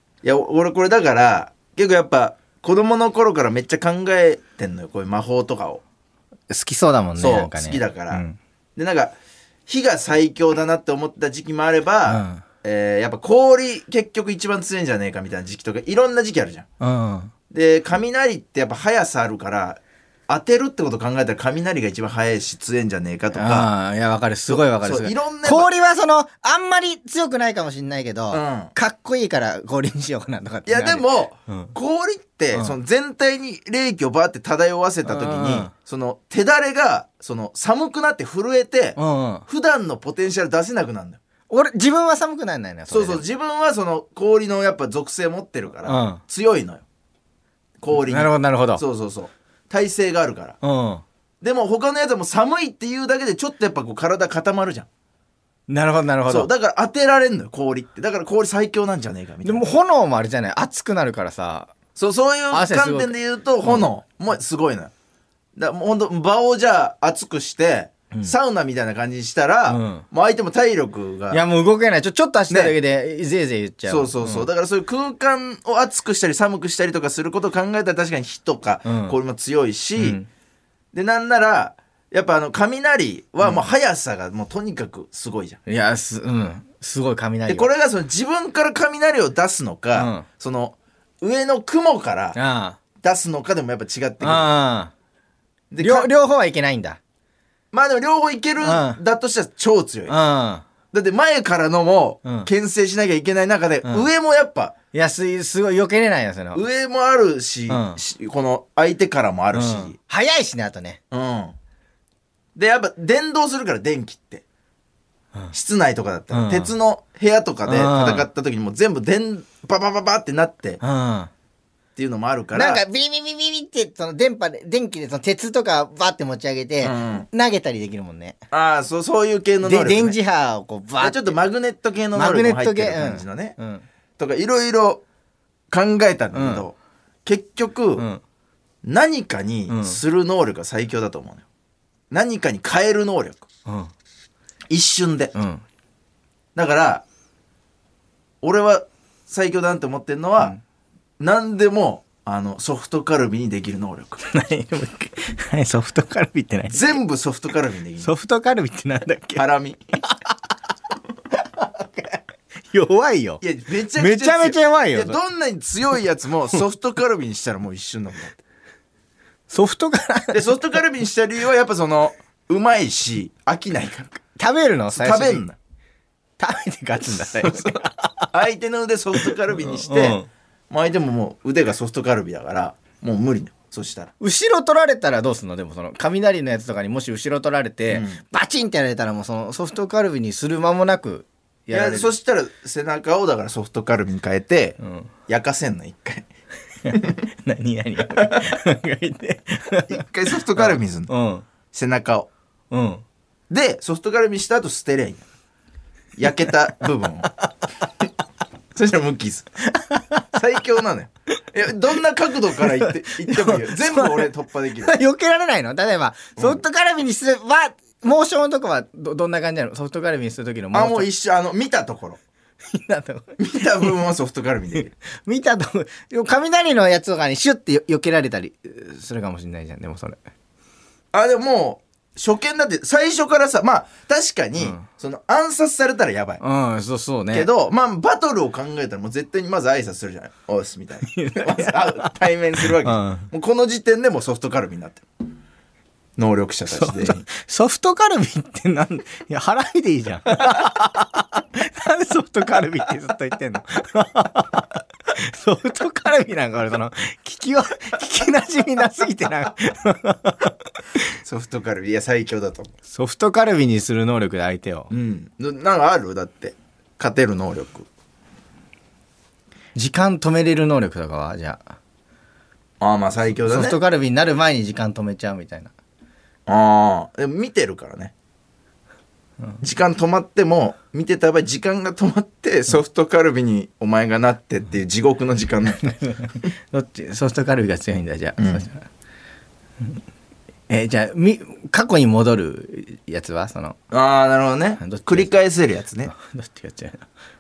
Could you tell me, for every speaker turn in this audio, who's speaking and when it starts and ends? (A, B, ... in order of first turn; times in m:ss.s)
0:00.2-0:05.8 A
0:06.5-0:08.4 B
0:07.2-0:08.2 A
0:08.8-0:09.2 A
0:09.7-0:16.7 A
0:12.1-0:12.4 B
0:16.8-0:17.3 B
0:17.5-0:23.7 A
0:23.3-0:31.7 B
0:24.5-0:25.7 A
0:28.3-0:28.7 A
0:30.7-0:41.2 A
0:35.0-0:35.7 B
0:39.0-0:39.5 B
0:41.5-0:43.2 B
0:42.9-0:46.8 A
0:45.8-0:46.2 B
0:47.8-0:50.6 A
0:47.9-0:48.8 B
0:50.6-0:51.0 B
0:51.4-0:54.9 A
0:55.7-0:56.5 B
0:56.3-0:59.7 A
0:59.4-1:01.7 B
1:02.0-1:04.9 A
1:02.5-1:03.9 B
1:05.6-1:11.4 A
1:09.7-1:10.0 B
1:11.3-1:14.5 B
1:12.5-1:12.8 A
1:13.9-1:20.2 A
1:18.8-1:19.2 B
1:20.0-1:20.3 B
1:20.9-1:25.6 A
1:23.4-1:23.7 B
1:25.7-1:27.7 B
1:27.5-1:32.4 A
1:30.0-1:30.3 B
1:32.4-1:32.8 B
1:33.0-1:34.5 A
1:34.2-1:34.9 B
1:35.7-1:36.1 A
1:35.8-1:37.0 B
1:37.7-1:40.2 A
1:38.6-1:39.0 B
1:40.1-1:40.6 B
1:40.9-1:44.8 A
1:42.2-1:42.5 B
1:44.9-1:46.6 B
1:46.5-1:50.0 A
1:47.7-1:48.0 B
1:49.5-1:51.0 B
1:51.1-1:51.6 A
1:52.6-1:54.4 A
1:55.5-2:00.8 A
1:56.3-1:56.7 B
1:57.7-1:58.3 B
2:00.8-2:01.3 B
2:02.0-2:02.8 A
2:02.5-2:08.4 B
2:06.8-2:07.3 A
2:08.5-2:10.2 A
2:09.6-2:11.4 B
2:11.0-2:13.6 A
2:12.1-2:13.9 B
2:14.2-2:15.0 A
2:15.7-2:18.1 A
2:16.3-2:16.6 B
2:18.0-2:18.2 B
2:18.8-2:21.4 A
2:19.7-2:20.0 B
2:22.1-2:23.5 A
2:23.7-2:23.9 B
2:24.7-2:25.3 A
2:25.4-2:25.6 B
2:26.6-2:27.0 A
2:28.4-2:30.6 A
2:31.2-2:34.2 A
2:34.2-2:37.0 B
2:36.7-2:38.1 A
2:38.0-2:39.4 B
2:39.4-2:39.8 A
2:40.0-2:40.4 B
2:41.3-2:43.4 B
2:43.4-2:48.4 A
2:43.9-2:45.2 B
2:49.5-2:50.6 B
2:50.3-2:54.2 A
2:54.4-2:55.4 B
2:54.9-2:55.6 A
2:56.4-2:58.3 B
2:57.4-3:04.1 A
2:59.2-3:00.3 B
3:04.2-3:12.1 B
3:07.9-3:08.2 A
3:11.7-3:14.8 A
3:14.8-3:15.1 B
3:15.3-3:16.3 A
3:16.8-3:21.5 B
3:18.2-3:18.5 A
3:19.9-3:21.1 A
3:21.7-3:22.3 A
3:22.7-3:23.0 B
3:23.5-3:25.3 A
3:26.2-3:27.3 A
3:28.7-3:29.5 A
3:29.8-3:30.2 B
3:30.3-3:35.0 A
3:32.6-3:41.1 B
3:36.4-3:36.6 A
3:40.7-3:42.2 A
3:42.7-3:44.0 B
3:43.4-3:44.9 A
3:44.7-3:50.2 B
3:51.1-3:56.4 A
3:54.6-3:54.8 B
3:56.4-3:57.5 B
3:57.3-4:05.0 A
4:01.0-4:03.3 B
4:06.2-4:07.2 A
4:06.7-4:20.5 B
4:21.2-4:22.7 A
4:22.9-4:24.9 B
4:24.9-4:27.9 A
4:29.8-4:31.6 B
4:32.8-4:33.8 A
4:33.3-4:35.7 B
4:36.5-4:38.1 A
4:39.6-4:45.9 A
4:45.8-4:48.9 B
4:48.4-4:48.6 A
4:50.7-4:53.8 B
4:53.9-4:56.1 A
4:54.8-4:55.4 B
4:56.0-4:57.1 B